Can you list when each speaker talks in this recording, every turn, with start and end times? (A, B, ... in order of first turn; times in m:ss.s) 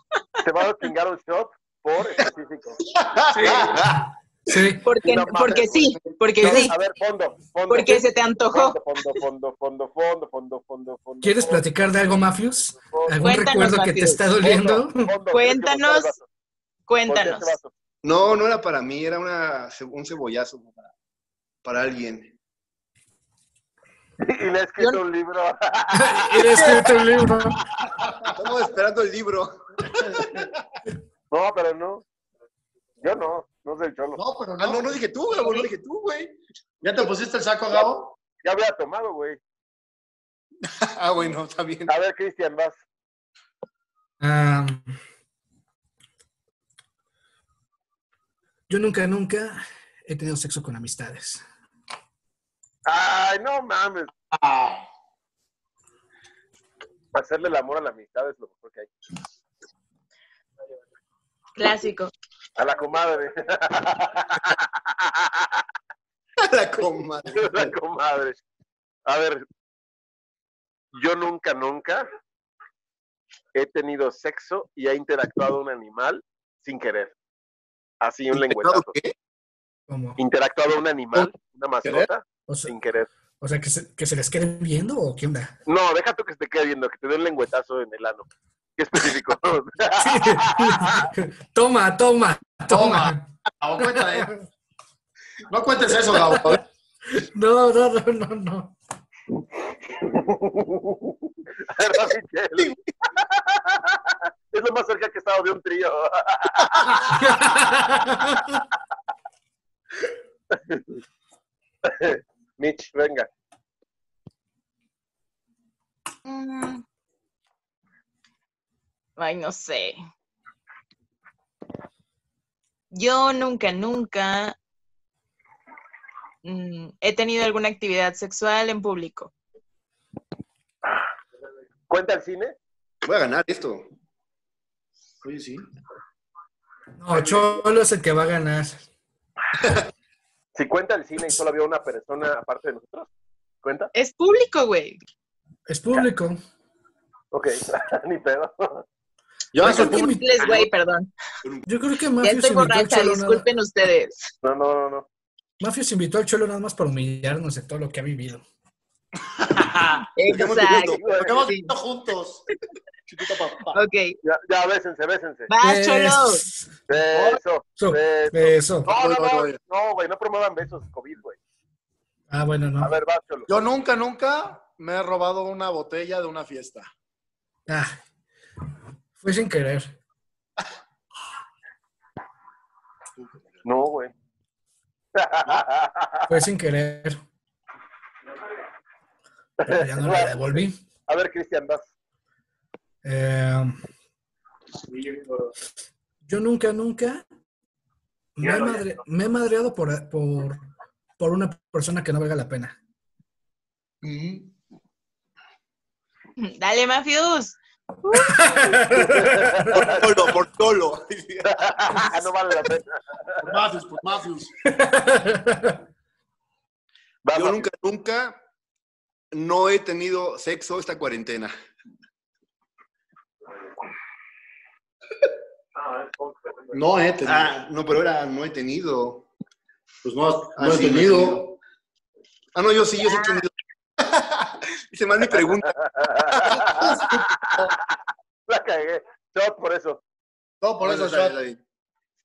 0:00.4-0:02.8 A
0:02.9-0:04.0 B
0:03.4-0:03.8 A
0:04.0-0:04.8 C
0:04.8-0:06.8 D
0:05.0-0:11.6 A
0:07.7-0:09.2 D
0:11.2-0:15.1 C
0:12.8-0:13.2 A
0:13.2-0:14.2 D
0:14.4-0:16.2 A
0:15.3-0:16.2 D
0:16.9-0:17.6 D
0:17.1-0:17.7 A
0:18.0-0:20.9 E
0:21.6-0:22.4 E
0:24.2-0:26.9 A
0:25.9-0:27.6 C
0:28.0-0:28.3 B
0:28.3-0:30.2 E
0:30.0-0:30.5 B
0:31.3-0:32.0 A
0:33.0-0:34.2 A
0:34.2-0:34.9 B
0:34.6-0:36.4 E
0:36.8-0:38.1 B
0:37.7-0:39.4 A
0:40.7-0:41.9 E
0:41.9-0:42.8 A
0:44.2-0:45.0 C
0:48.7-0:51.4 C
0:52.9-0:54.1 A
0:54.3-0:54.8 B
0:57.1-0:58.9 A
1:01.6-1:02.1 D
1:02.6-1:05.6 A
1:06.4-1:07.7 E
1:07.4-1:08.4 A
1:09.1-1:09.4 A
1:10.9-1:12.1 A
1:13.5-1:17.2 A
1:18.0-1:18.9 A
1:18.3-1:19.1 E
1:19.9-1:20.2 C
1:20.2-1:23.1 A
1:22.5-1:22.7 C
1:23.4-1:25.5 C
1:25.7-1:28.3 A
1:28.8-1:31.1 A
1:30.0-1:33.2 C
1:32.7-1:34.3 B
1:33.8-1:34.4 C
1:35.5-1:36.6 B
1:36.1-1:36.4 C
1:37.1-1:38.7 C
1:40.0-1:41.0 A
1:41.7-1:47.1 A
1:47.2-1:48.6 C
1:50.5-1:50.8 A
1:51.8-1:53.3 A
1:56.2-1:56.8 D
1:59.2-2:00.0 D
2:02.9-2:04.6 D
2:06.4-2:09.3 D
2:11.9-2:12.6 A
2:13.0-2:13.9 E
2:15.2-2:15.7 B
2:17.0-2:18.8 C
2:20.6-2:23.1 A
2:23.6-2:23.9 A
2:23.9-2:25.0 D
2:25.7-2:26.4 C
2:27.3-2:28.8 A
2:29.5-2:30.1 B
2:29.6-2:30.6 C
2:29.7-2:31.1 D
2:31.4-2:31.7 E
2:31.7-2:33.4 C
2:32.2-2:34.3 D
2:34.4-2:35.1 A
2:35.6-2:38.4 C
2:39.4-2:40.0 B
2:40.2-2:41.7 D
2:40.3-2:41.0 E
2:40.9-2:41.4 A
2:41.1-2:42.5 B
2:43.1-2:43.8 B
2:43.7-2:44.2 D
2:44.2-2:45.5 A
2:45.5-2:46.4 D
2:45.6-2:46.7 C
2:46.9-2:51.4 A
2:47.1-2:47.4 B
2:47.8-2:48.9 C
2:48.9-2:49.6 B
2:52.3-2:52.9 C
2:52.8-2:53.5 A
2:53.5-2:56.9 B
2:57.7-2:58.0 C
2:59.2-2:59.9 C
3:03.6-3:04.1 A
3:05.2-3:06.3 A
3:06.3-3:07.2 C
3:09.6-3:11.9 A
3:09.7-3:10.8 C
3:13.0-3:13.8 C
3:16.3-3:17.2 C
3:18.4-3:20.7 C
3:21.2-3:22.8 C
3:24.0-3:24.5 B
3:26.4-3:28.6 D
3:28.2-3:29.8 C
3:29.0-3:30.1 A
3:29.7-3:31.7 E
3:31.4-3:33.4 A
3:33.4-3:34.6 B
3:34.6-3:35.8 C
3:37.2-3:37.7 A
3:37.3-3:38.4 E
3:39.3-3:41.5 E
3:46.7-3:47.6 B
3:47.2-3:49.3 E
3:50.0-3:51.6 B
3:50.6-3:51.5 E
3:52.6-3:56.8 E
3:53.0-3:53.4 D
3:55.4-3:57.8 A
3:56.5-3:57.8 B
3:58.5-4:00.0 A
4:00.6-4:01.4 B
4:00.8-4:01.6 E